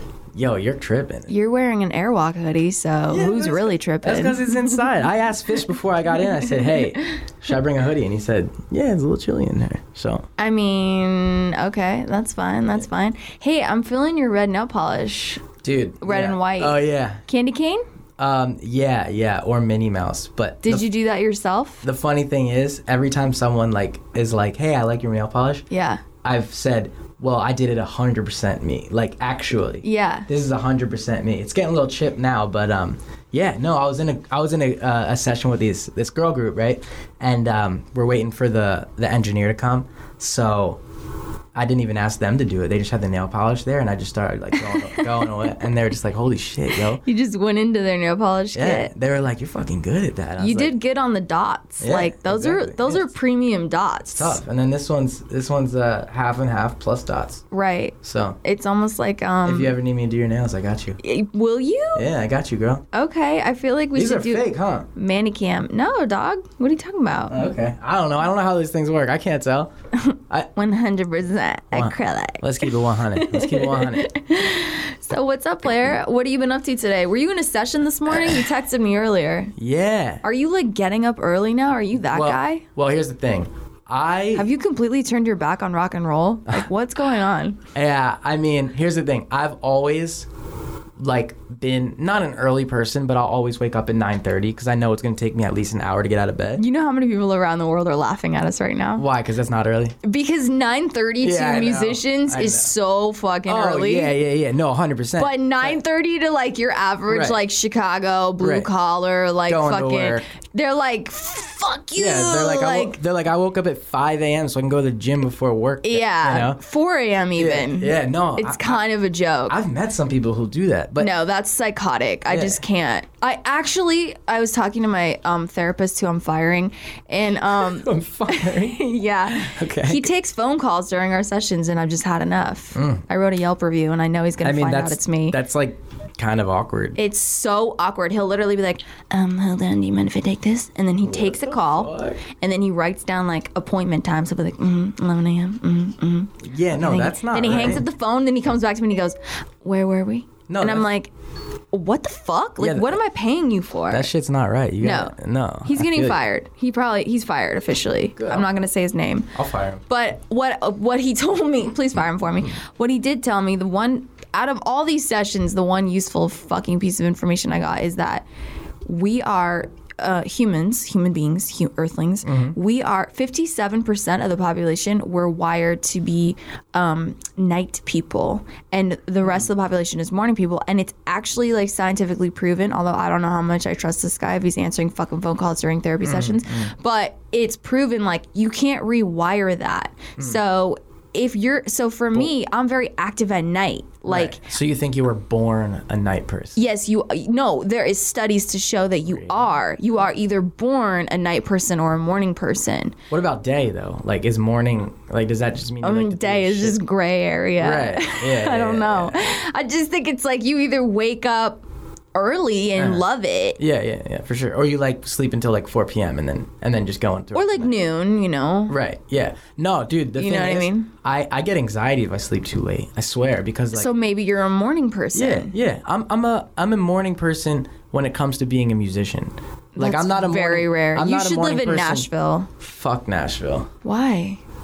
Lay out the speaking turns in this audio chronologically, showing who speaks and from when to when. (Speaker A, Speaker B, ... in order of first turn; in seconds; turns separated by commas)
Speaker A: 0.3-1.3, Speaker B: 1.3-4.8, Speaker A: 3.1-10.2, Speaker B: 10.4-15.4, Speaker A: 15.6-17.2, Speaker B: 16.0-17.8, Speaker A: 18.2-20.9, Speaker B: 20.6-21.8, Speaker A: 21.8-25.7, Speaker B: 25.7-26.0, Speaker A: 26.2-40.8, Speaker B: 29.8-30.3, Speaker A: 41.5-47.0, Speaker B: 44.7-45.2, Speaker B: 46.9-48.9, Speaker A: 48.5-50.8, Speaker B: 50.4-54.4, Speaker A: 51.8-53.1, Speaker A: 54.2-57.4, Speaker B: 57.5-59.8, Speaker A: 58.0-58.4, Speaker A: 59.4-61.0, Speaker B: 61.0-62.1, Speaker A: 61.9-62.8, Speaker B: 62.9-67.5, Speaker A: 63.9-64.9, Speaker A: 67.3-69.7, Speaker B: 70.1-79.5, Speaker A: 71.7-74.1, Speaker A: 78.1-78.4, Speaker A: 79.6-80.2, Speaker B: 80.2-82.6, Speaker A: 82.1-84.5, Speaker B: 84.3-87.6, Speaker A: 87.7-90.3, Speaker A: 91.0-96.7, Speaker B: 96.6-99.1, Speaker A: 98.9-100.0, Speaker B: 100.0-104.2, Speaker A: 101.2-102.7, Speaker A: 103.5-105.8, Speaker B: 105.2-113.0, Speaker A: 107.1-107.4, Speaker A: 108.4-108.7, Speaker A: 109.5-110.2, Speaker A: 112.0-116.6, Speaker B: 115.8-119.6, Speaker A: 117.3-118.8, Speaker A: 119.5-121.1, Speaker B: 121.0-135.4, Speaker A: 122.3-122.6, Speaker A: 127.5-130.1, Speaker A: 132.8-133.0, Speaker A: 134.4-137.0, Speaker B: 137.0-151.1, Speaker A: 141.0-142.2, Speaker A: 146.4-147.8, Speaker A: 150.5-150.9, Speaker B: 151.7-154.1, Speaker A: 152.6-153.0, Speaker A: 153.9-156.2, Speaker B: 154.8-159.3, Speaker A: 158.2-158.5, Speaker A: 159.3-159.8, Speaker B: 159.9-168.3, Speaker B: 168.8-194.4, Speaker A: 172.2-172.6, Speaker A: 186.0-186.7, Speaker A: 194.1-196.6, Speaker B: 196.6-202.9, Speaker A: 199.1-199.5, Speaker A: 203.1-206.8, Speaker B: 205.8-213.6, Speaker A: 207.6-209.3, Speaker A: 212.8-213.1, Speaker A: 213.6-217.7, Speaker B: 217.3-218.8, Speaker A: 218.7-223.9, Speaker B: 220.2-220.9, Speaker B: 223.7-225.5, Speaker A: 225.1-233.7, Speaker B: 229.8-232.5, Speaker B: 233.8-234.4